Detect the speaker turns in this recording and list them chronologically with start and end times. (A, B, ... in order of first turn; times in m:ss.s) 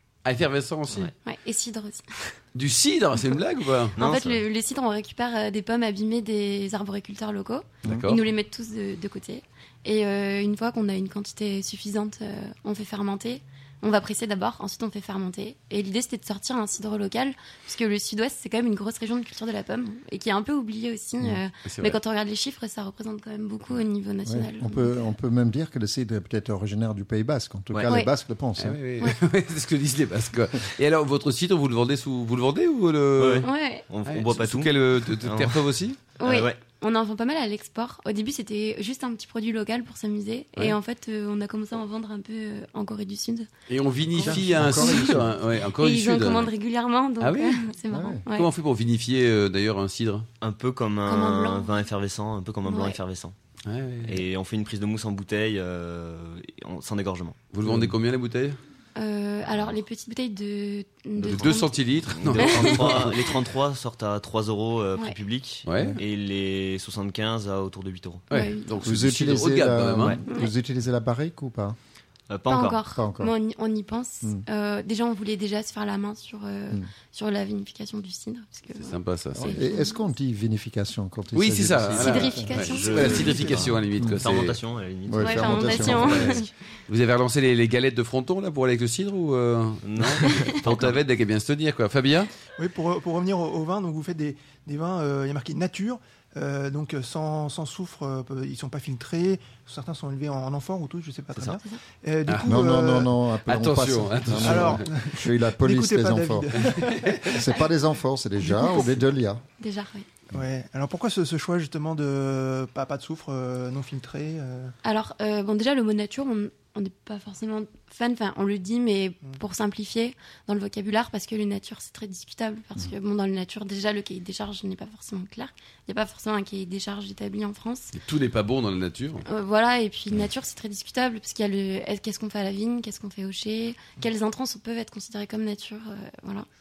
0:00.2-0:01.1 A
0:01.2-0:02.3 B
0:02.6-0:04.0 A
0:04.0-0:04.4 C
0:04.0-0:24.9 B
0:07.8-0:08.2 A
0:21.6-0:22.0 A
0:24.2-0:28.8 D
0:28.6-0:33.5 A
0:33.2-0:36.6 C
0:33.4-0:33.9 B
0:34.0-0:36.0 A
0:36.2-0:43.5 B
0:43.7-0:46.5 A
0:44.2-0:45.3 D
0:44.3-0:48.5 B
0:47.2-0:47.6 A
0:47.9-0:48.2 D
0:48.3-0:50.3 A
0:50.4-0:53.4 C
0:51.1-0:51.9 B
0:52.7-0:53.0 B
0:53.7-0:54.2 A
0:54.0-0:57.5 C
0:57.5-0:58.6 A
0:59.0-1:01.8 B
1:01.2-1:08.3 C
1:01.2-1:03.2 A
1:02.4-1:03.3 B
1:05.7-1:06.0 A
1:08.3-1:08.9 B
1:08.3-1:10.2 A
1:08.8-1:11.8 D
1:12.3-1:12.8 C
1:12.5-1:20.0 B
1:12.9-1:13.4 D
1:18.8-1:19.6 A
1:19.4-1:22.7 D
1:21.4-1:24.6 A
1:21.9-1:23.6 B
1:22.4-1:26.5 C
1:24.0-1:24.2 D
1:25.1-1:26.4 D
1:25.2-1:26.5 B
1:26.9-1:32.3 A
1:29.8-1:31.0 C
1:32.6-1:43.1 E
1:42.3-1:42.6 A
1:42.4-1:49.4 D
1:43.5-1:44.9 A
1:44.4-1:47.5 E
1:46.8-1:47.3 A
1:48.4-1:48.9 E
1:49.6-1:50.1 B
1:50.3-1:54.7 E
1:54.8-2:08.0 B
2:07.9-2:09.2 A
2:09.2-2:16.5 B